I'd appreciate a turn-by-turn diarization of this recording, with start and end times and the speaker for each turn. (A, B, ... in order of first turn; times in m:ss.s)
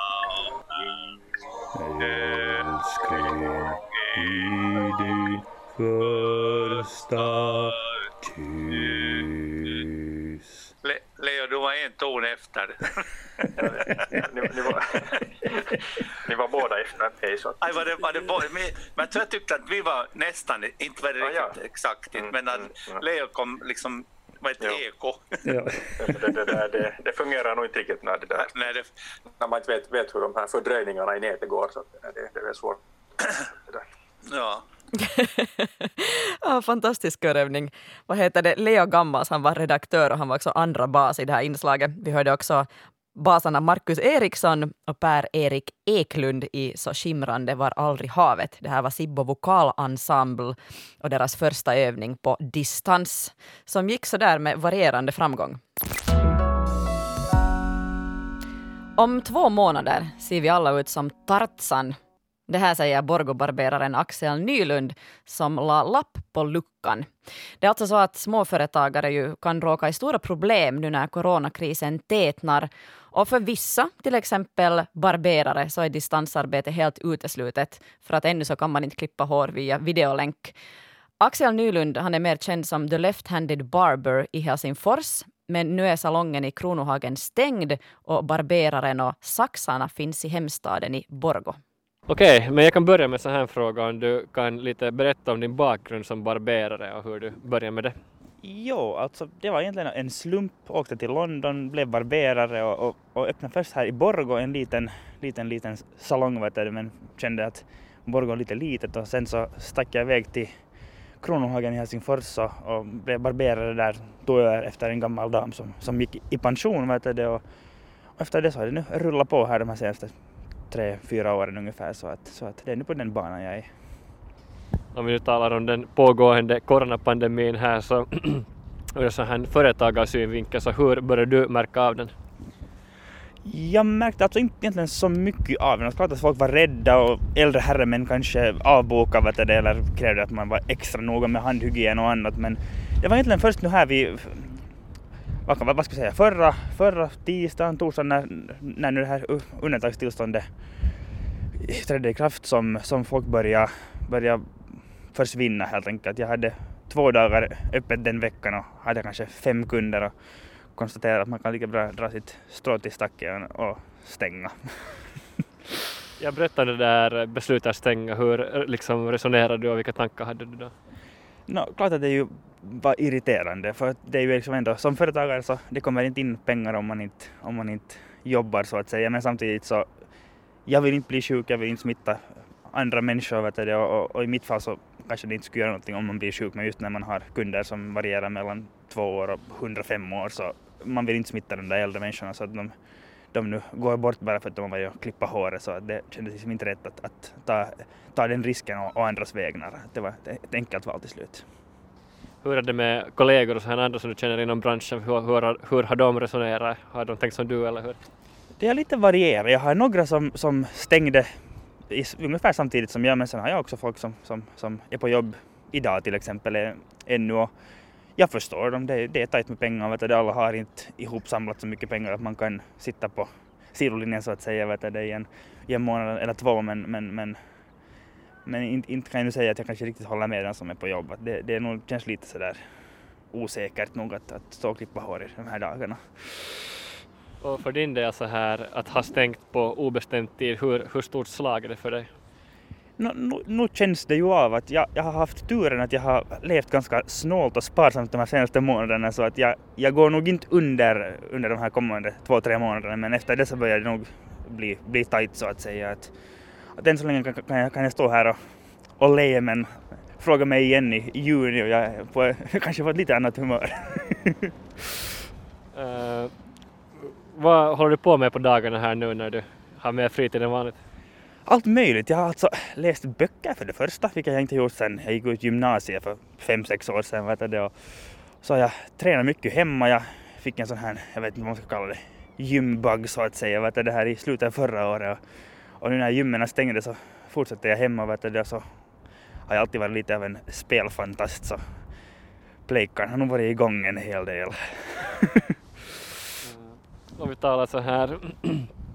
0:01.8-0:10.6 A
0:10.8-0:12.8 B
0:13.6-0:15.1 C
0:16.2-0:18.0 C
0:17.6-0:25.4 B
0:21.2-0:21.6 C
0:22.2-0:23.0 C
0:25.5-0:25.8 A
0:26.0-0:28.7 C
0:28.4-0:28.9 B
0:29.4-0:32.8 C
0:34.3-0:34.6 B
0:35.0-0:55.6 D
0:59.0-1:02.0 D
1:02.5-1:07.1 D
1:07.6-1:20.6 D
1:21.2-1:31.6 D
1:32.1-1:38.0 E
1:38.4-1:50.5 F
1:51.2-1:57.4 F
1:58.2-2:00.1 F
2:00.7-2:03.7 F
2:05.0-2:12.1 E
2:13.4-2:24.6 F
2:25.5-2:30.5 F
2:31.6-2:34.5 F
2:35.1-2:40.1 F
2:40.8-2:45.0 F
2:46.2-2:50.7 E
2:51.5-2:59.9 F
3:00.7-3:12.8 F
3:13.3-3:21.4 F
3:22.4-3:28.0 E
3:28.6-3:31.3 F
3:31.9-3:37.5 F
3:38.2-3:47.4 F
3:48.5-3:52.6 F
3:53.3-3:56.5 F
3:57.4-4:02.1 E
4:03.0-4:16.1 F
4:16.8-4:18.4 F
4:19.0-4:24.5 F
4:25.7-4:26.3 E
4:27.3-4:30.8 E
4:31.5-4:45.2 F
4:45.8-4:48.7 F
4:49.5-4:51.6 F
4:52.7-4:55.4 F
4:56.4-4:58.7 E